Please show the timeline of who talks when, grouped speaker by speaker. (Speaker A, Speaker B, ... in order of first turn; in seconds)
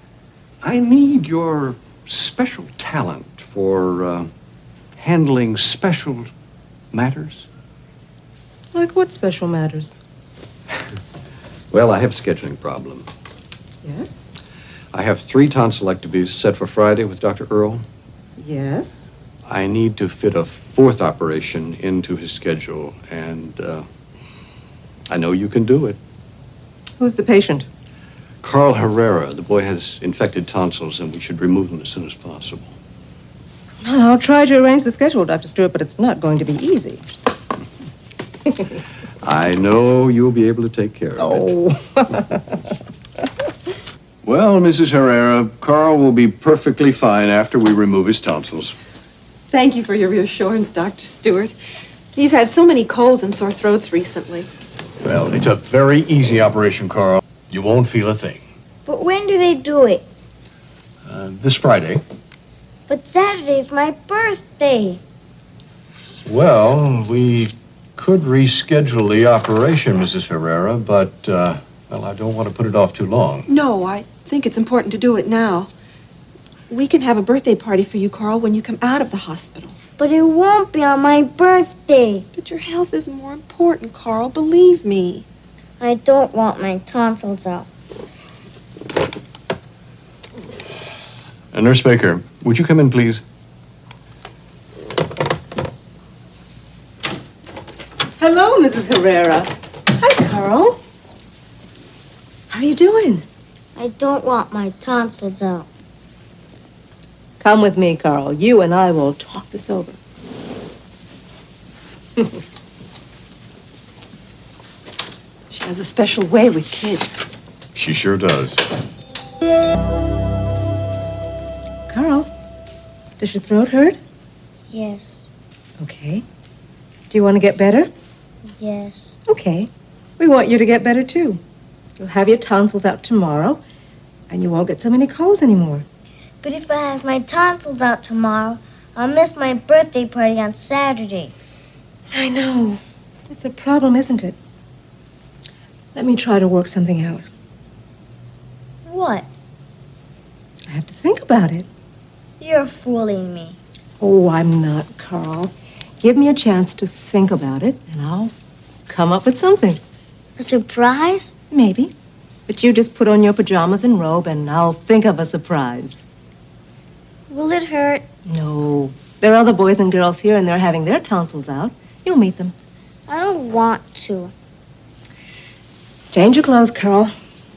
Speaker A: 0.6-4.3, 5.0-6.3, 6.9-7.5, 11.7-13.1, 14.9-17.9, 19.5-23.9, 25.1-26.0, 28.4-32.7, 39.2-41.5, 44.2-48.8, 55.0-58.4, 61.1-62.0, 66.2-73.5, 91.5-93.2, 117.8-118.6
Speaker B: 8.7-9.9, 13.8-14.3, 18.4-19.1, 27.0-27.7, 33.8-37.1, 41.2-42.2, 98.2-100.8, 102.5-103.2, 107.4-110.0, 115.8-116.3, 121.9-122.3, 123.2-124.0, 125.8-126.2, 127.1-127.9, 129.3-131.4, 132.0-133.6, 134.3-135.9, 142.1-142.8, 143.3-144.4, 145.9-147.2, 150.7-151.7, 154.0-158.3, 158.9-159.8, 161.5-161.9, 162.5-166.0, 168.3-172.5, 176.1-177.1
Speaker C: 49.5-51.5, 52.1-54.5, 73.5-75.7, 76.7-79.7, 82.4-85.2, 115.6-117.0
Speaker D: 58.9-60.0, 62.9-65.0, 80.0-82.3, 85.8-87.7, 103.8-105.7, 124.7-125.2, 128.6-129.2, 136.4-141.3, 148.9-149.3, 152.4-153.6, 160.4-161.3, 167.3-168.1, 173.1-174.3